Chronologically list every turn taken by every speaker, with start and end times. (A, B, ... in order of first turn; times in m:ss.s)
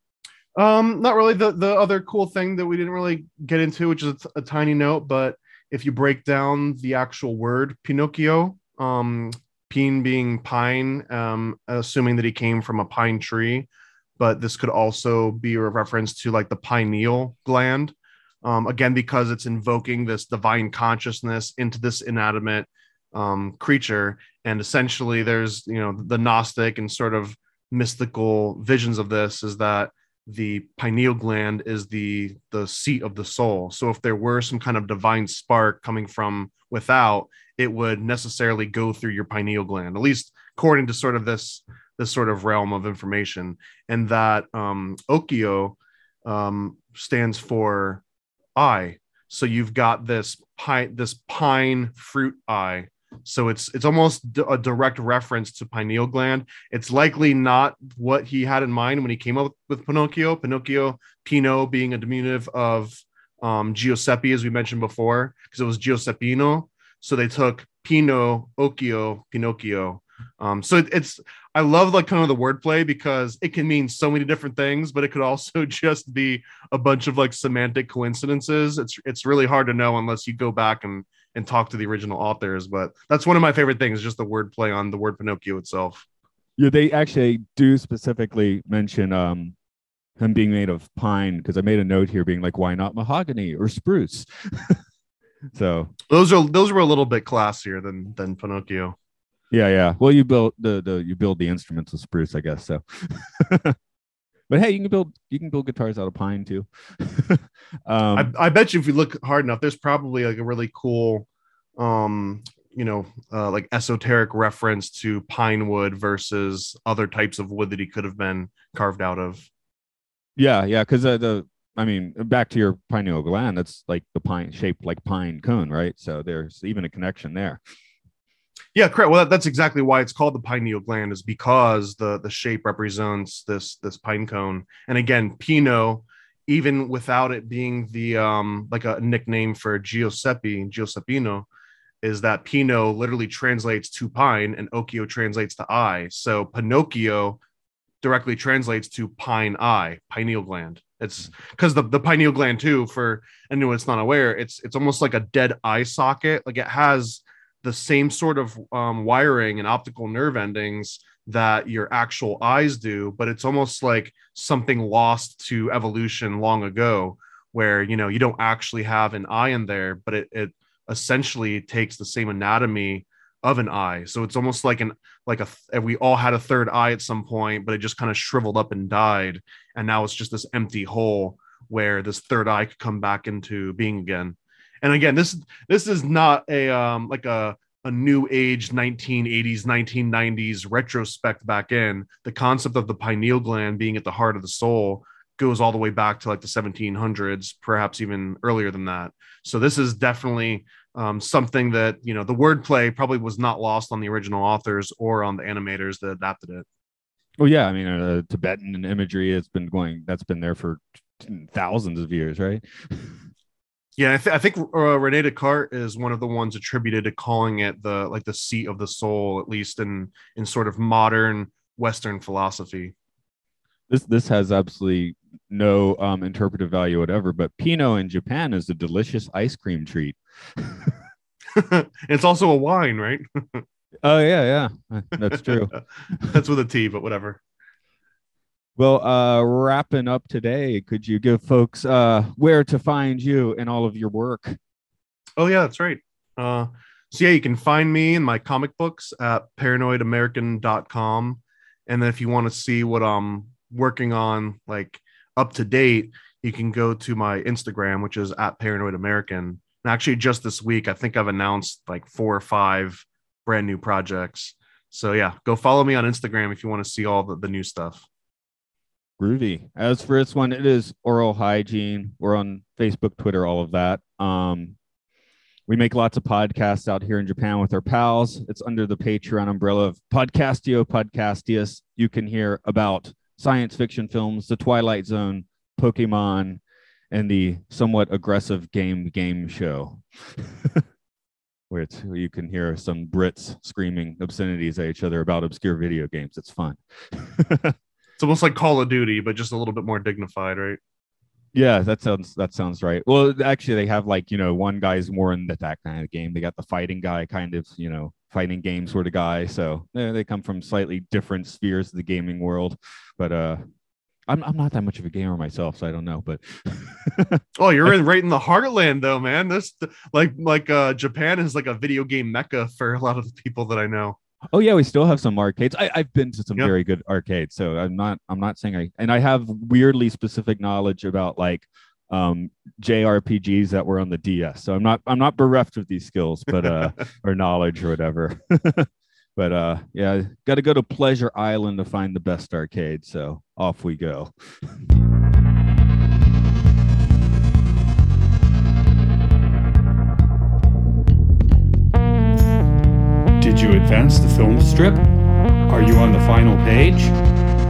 0:00.6-0:48.0 A
0:48.6-1:26.0 A
1:26.6-1:29.6 B
1:30.2-1:34.8 B
1:35.5-1:35.9 B
1:36.1-1:39.0 A
1:39.5-1:43.8 B
1:44.5-1:48.3 B
1:48.2-1:59.5 A
2:00.4-2:07.6 B
2:08.8-2:21.5 A
2:22.0-2:27.4 A
2:28.0-3:26.7 A
3:27.4-3:33.2 B
3:34.0-3:42.9 A
3:43.9-3:51.0 B
3:51.5-3:53.6 A
3:54.0-3:56.3 B
3:56.2-3:57.4 A
3:58.8-4:04.6 B
4:05.4-4:28.1 A
4:29.2-4:34.8 B
4:35.7-4:46.6 B
4:47.1-4:50.8 B
4:51.7-4:57.8 B
4:58.2-5:00.8 A
5:01.5-5:13.6 B
5:14.3-5:17.9 B
5:17.6-5:24.2 A
5:24.5-5:44.7 B
5:53.4-5:55.1 C
5:55.7-5:57.2 C